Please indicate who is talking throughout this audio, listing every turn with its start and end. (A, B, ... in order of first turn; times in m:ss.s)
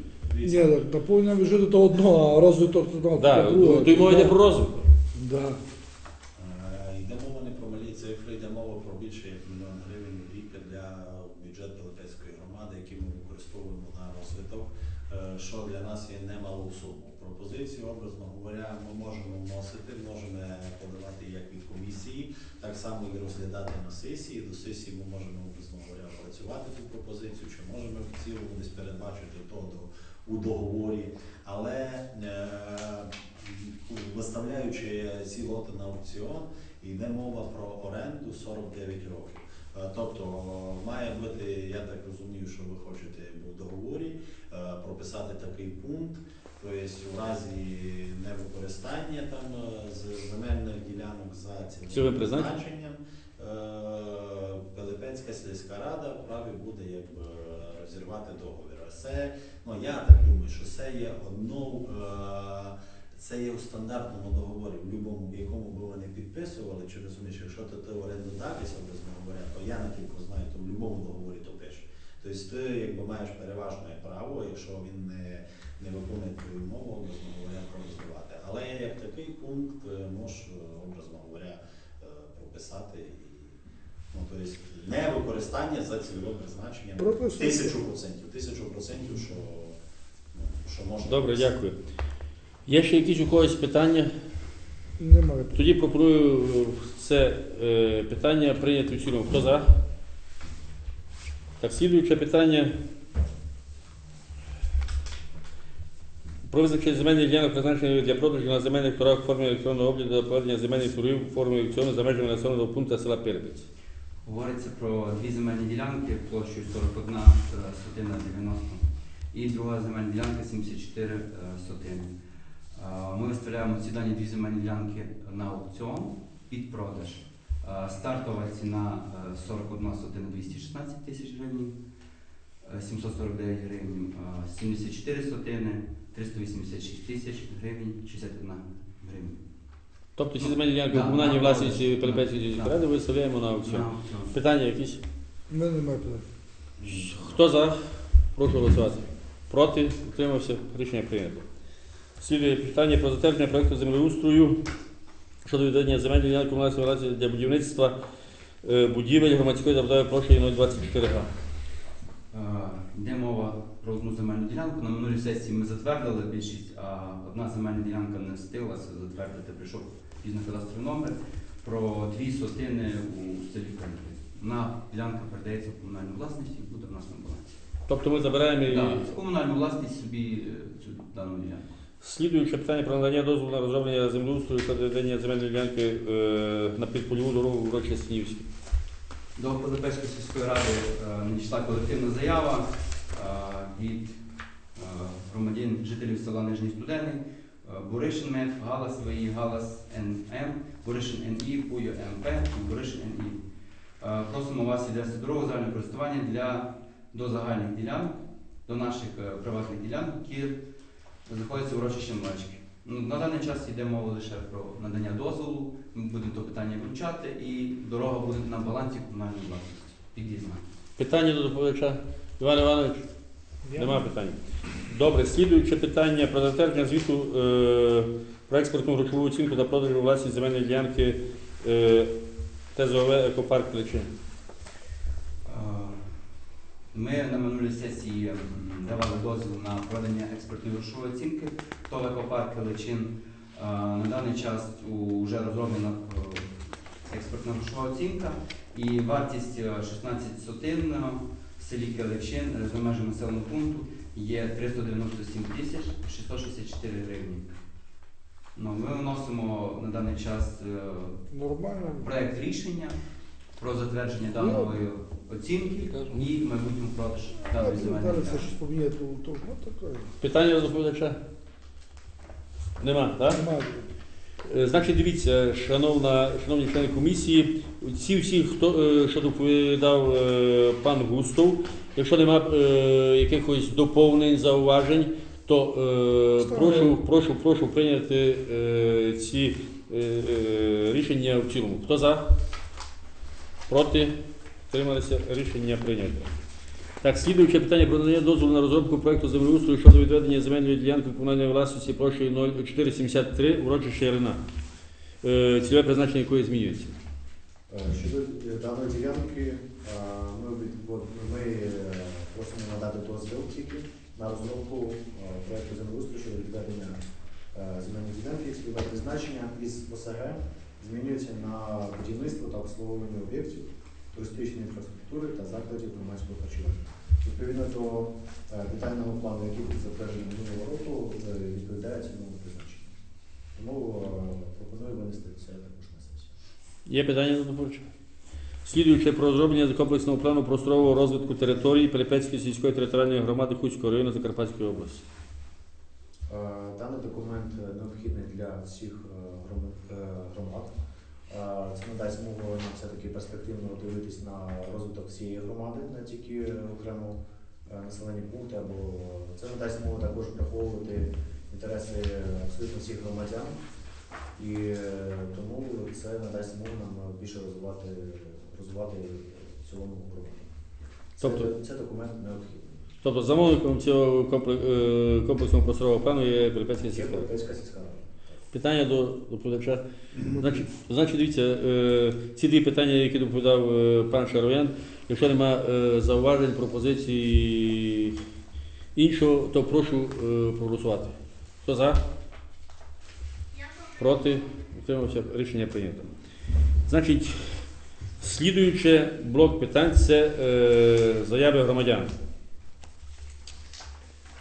0:00.3-0:00.8 A
0:00.4-0:04.4 B
0:03.2-0:04.9 C
0:05.1-0:05.6 B
0:06.4-1:23.6 A
0:51.9-0:52.5 C
1:24.1-1:29.7 A
1:27.0-1:27.7 B
1:30.3-1:31.5 A
1:31.0-1:31.8 C
1:32.6-1:34.1 C
1:35.0-1:35.6 B
1:35.5-1:39.6 C
1:41.6-1:42.8 C
1:46.5-1:53.6 C
1:54.2-2:02.1 D
2:02.7-2:11.7 D
2:12.6-2:19.4 D
2:20.2-2:25.0 C
2:20.4-2:22.8 D
2:23.6-2:24.4 D
2:25.5-2:26.2 B
2:26.8-2:27.4 D
2:26.9-2:27.7 C
2:28.3-2:31.4 C
2:32.2-2:34.6 C
2:35.4-2:38.0 C
2:38.6-2:41.3 C
2:42.3-2:57.4 D
2:57.9-2:59.1 C
2:58.6-3:01.7 D
3:02.0-3:08.5 C
3:09.4-3:14.2 D
3:14.7-3:23.4 D
3:24.0-3:30.5 D
3:31.2-3:40.6 D
3:41.0-3:43.0 C
3:43.7-3:44.0 B
3:43.7-3:52.1 C
3:52.7-3:54.1 C
3:55.4-3:56.1 D
3:56.9-4:06.5 D
4:07.1-4:17.5 D
4:18.5-4:21.2 D
4:21.3-4:22.0 B
4:22.0-4:23.0 D
4:23.6-4:28.6 D
4:24.4-4:24.7 B
4:27.4-4:30.1 B
4:30.2-4:31.2 C
4:32.8-4:33.4 C
4:33.3-4:33.9 B
4:34.4-4:52.2 C
4:46.4-4:47.0 B
4:53.7-4:54.2 C
4:54.7-4:56.3 C
4:57.0-5:04.4 C
5:05.2-5:07.0 C
5:07.7-5:17.0 E
5:17.5-5:32.9 E
5:33.6-5:36.3 E
5:36.8-5:37.9 C
5:38.6-5:45.0 C
5:46.3-5:50.7 E
5:51.3-6:03.6 E
6:04.4-6:10.5 E
6:11.1-6:12.8 E
6:11.2-6:11.5 C
6:13.0-6:17.3 C
6:16.8-6:18.4 E
6:18.5-6:19.8 C
6:20.4-6:28.2 C
6:28.9-6:32.0 C
6:34.0-6:36.1 C
6:36.8-6:37.6 C
6:38.2-6:42.1 C